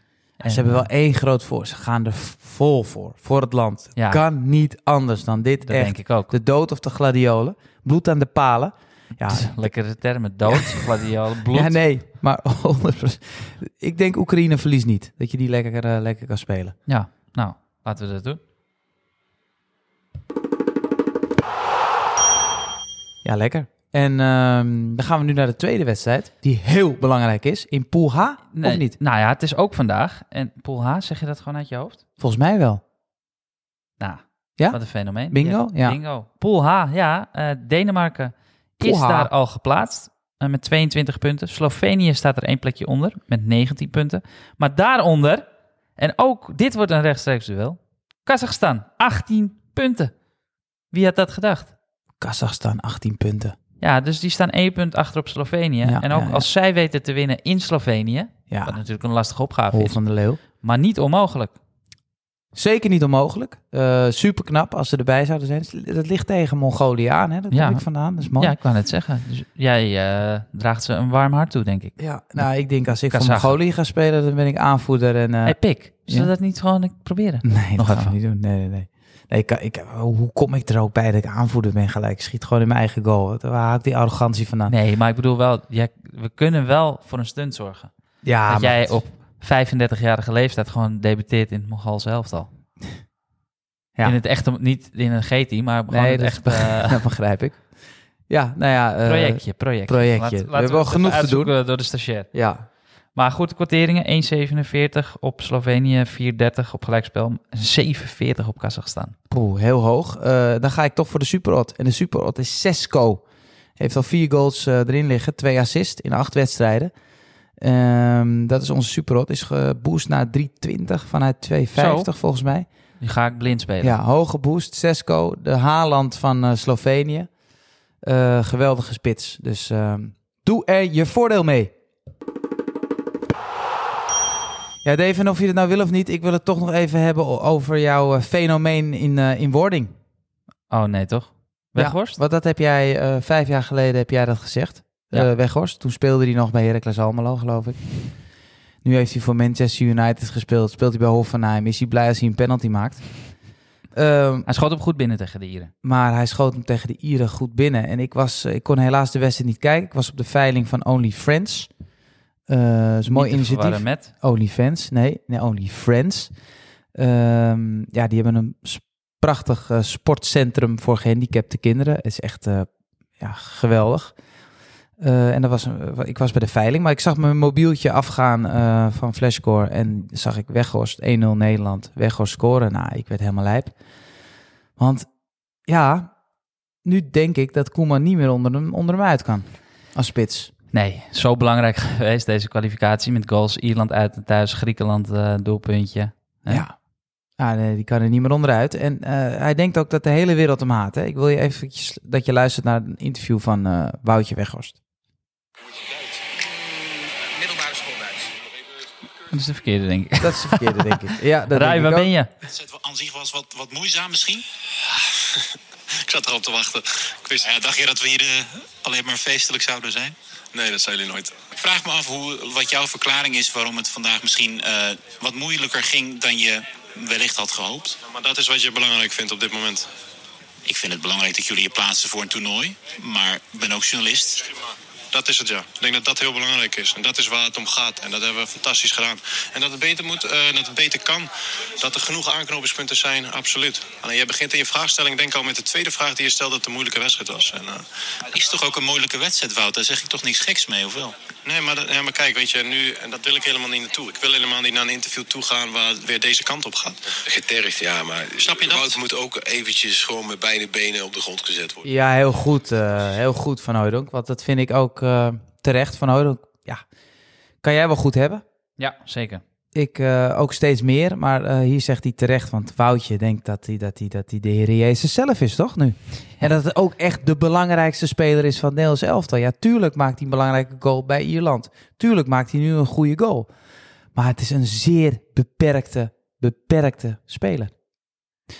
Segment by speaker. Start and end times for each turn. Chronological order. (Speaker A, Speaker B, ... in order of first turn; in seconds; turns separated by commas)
Speaker A: 0.4-0.9, Speaker B: 0.5-9.7, Speaker A: 4.0-4.2, Speaker A: 5.7-6.3, Speaker A: 9.3-11.8, Speaker B: 10.5-10.9, Speaker B: 11.5-16.8, Speaker A: 16.9-18.4, Speaker B: 23.2-28.9, Speaker A: 28.5-32.0, Speaker B: 32.2-32.8, Speaker A: 34.0-45.5, Speaker B: 34.6-36.0, Speaker B: 38.8-39.3, Speaker A: 46.0-50.1, Speaker A: 50.9-51.7, Speaker B: 52.2-53.5, Speaker A: 53.8-60.0, Speaker B: 55.8-56.5, Speaker B: 58.5-58.8, Speaker B: 59.7-60.4, Speaker A: 60.6-61.5, Speaker B: 62.5-68.5, Speaker A: 67.5-72.4, Speaker B: 72.0-76.3, Speaker A: 73.1-73.6, Speaker A: 75.4-78.1, Speaker B: 77.4-84.7, Speaker A: 84.7-87.9, Speaker B: 88.2-89.0, Speaker A: 88.5-92.5, Speaker A: 94.0-97.0, Speaker B: 95.9-97.7, Speaker B: 98.3-101.5, Speaker A: 99.0-102.3, Speaker B: 102.3-102.6, Speaker A: 103.1-109.1, Speaker B: 109.3-113.2, Speaker B: 113.8-116.9, Speaker B: 117.6-122.7, Speaker A: 121.8-122.1, Speaker A: 123.0-124.0, Speaker B: 123.8-127.3, Speaker B: 128.0-131.7, Speaker B: 134.8-139.9, Speaker A: 140.7-142.2, Speaker B: 141.8-147.9, Speaker B: 148.8-153.0, Speaker B: 153.9-154.5, Speaker A: 154.4-155.7, Speaker B: 155.8-161.7, Speaker B: 162.5-166.3, Speaker A: 163.1-164.1, Speaker B: 166.9-174.1, Speaker B: 175.0-183.7, Speaker B: 184.8-185.1, Speaker B: 185.7-186.1, Speaker B: 186.8-190.5, Speaker A: 190.7-196.7, Speaker B: 196.5-196.7, Speaker B: 197.4-204.8, Speaker A: 209.3-212.3, Speaker B: 210.2-212.1, Speaker C: 212.5-214.4, Speaker D: 216.1-217.4, Speaker C: 217.4-220.1, Speaker D: 220.5-221.3, Speaker C: 221.6-228.0, Speaker D: 228.0-229.9, Speaker C: 230.6-234.5, Speaker D: 235.1-247.8, Speaker C: 248.3-251.1, Speaker D: 251.4-257.0, Speaker E: 257.2-261.9, Speaker C: 258.4-258.9, Speaker B: 261.8-266.8, Speaker B: 267.6-268.4, Speaker A: 268.8-269.4, Speaker B: 269.7-283.5, Speaker B: 284.1-287.7